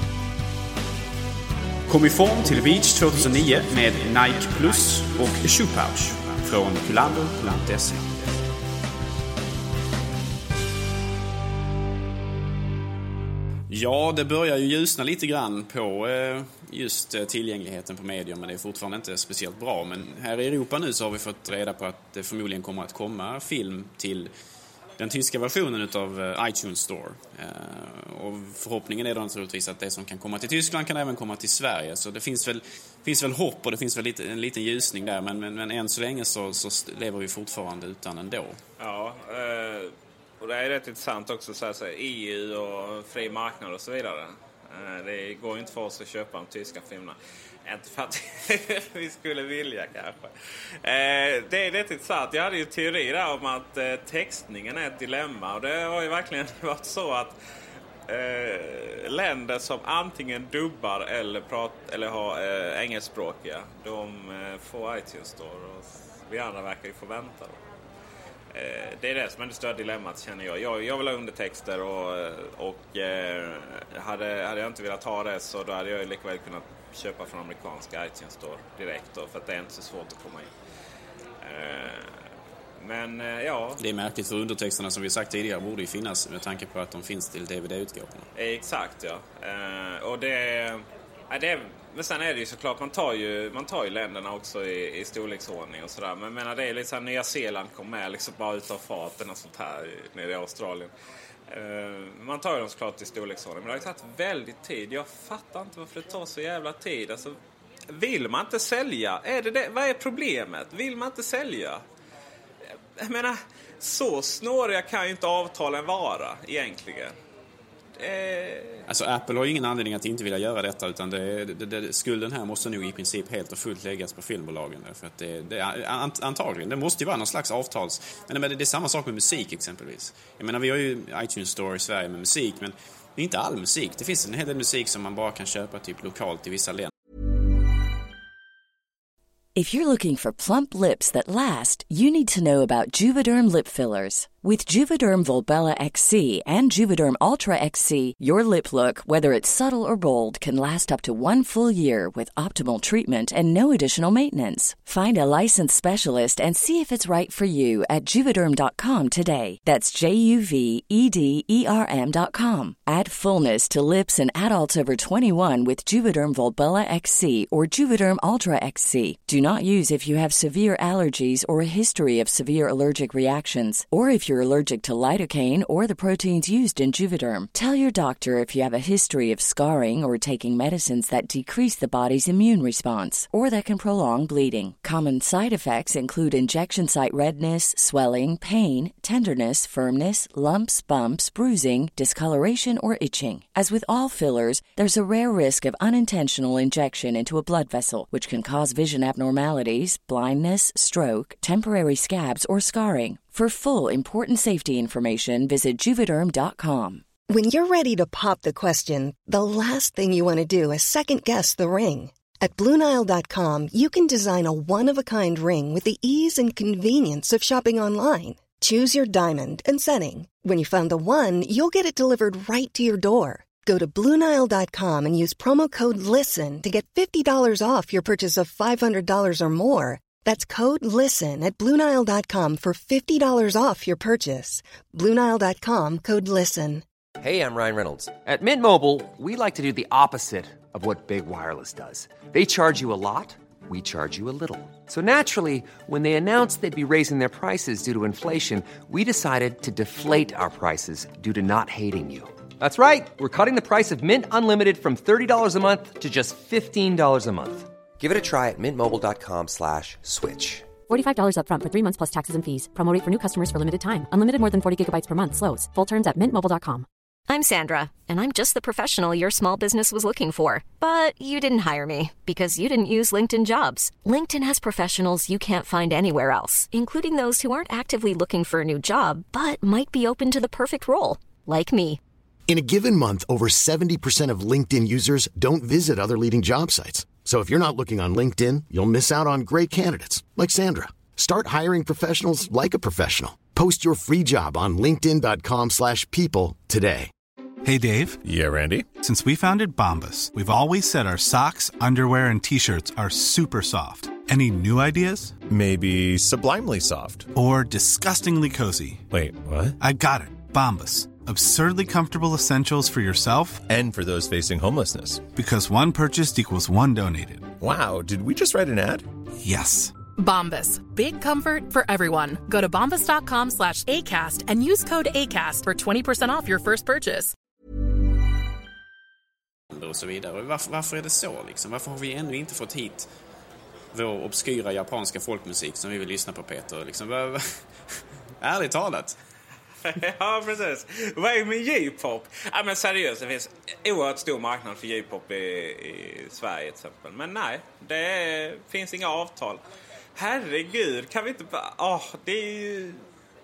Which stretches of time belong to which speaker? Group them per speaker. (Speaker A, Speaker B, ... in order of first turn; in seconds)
Speaker A: 1.9-8.3, 13.7-24.3, 25.0-38.6, 83.8-88.3, 118.9-136.9, 329.7-333.1, 333.9-337.6, 338.4-339.2
Speaker B: 38.8-50.3, 50.8-57.4, 58.1-67.6, 68.5-80.5, 81.4-82.1, 82.8-83.8, 88.3-100.9, 101.5-107.4, 107.9-111.8, 113.0-117.2, 118.0-118.8, 339.8-349.6, 350.1-353.0
Speaker C: 139.5-207.0
Speaker D: 207.3-236.8
Speaker E: 237.2-260.7
Speaker F: 260.9-266.9
Speaker G: 267.3-282.0
Speaker H: 282.5-297.1
Speaker I: 297.6-298.2, 299.0-305.4, 307.3-309.1, 309.8-313.6, 315.3-317.5, 319.4-319.9
Speaker J: 298.2-298.9, 305.4-307.3, 309.1-309.8, 313.6-315.2, 317.6-319.1
Speaker K: 320.1-327.3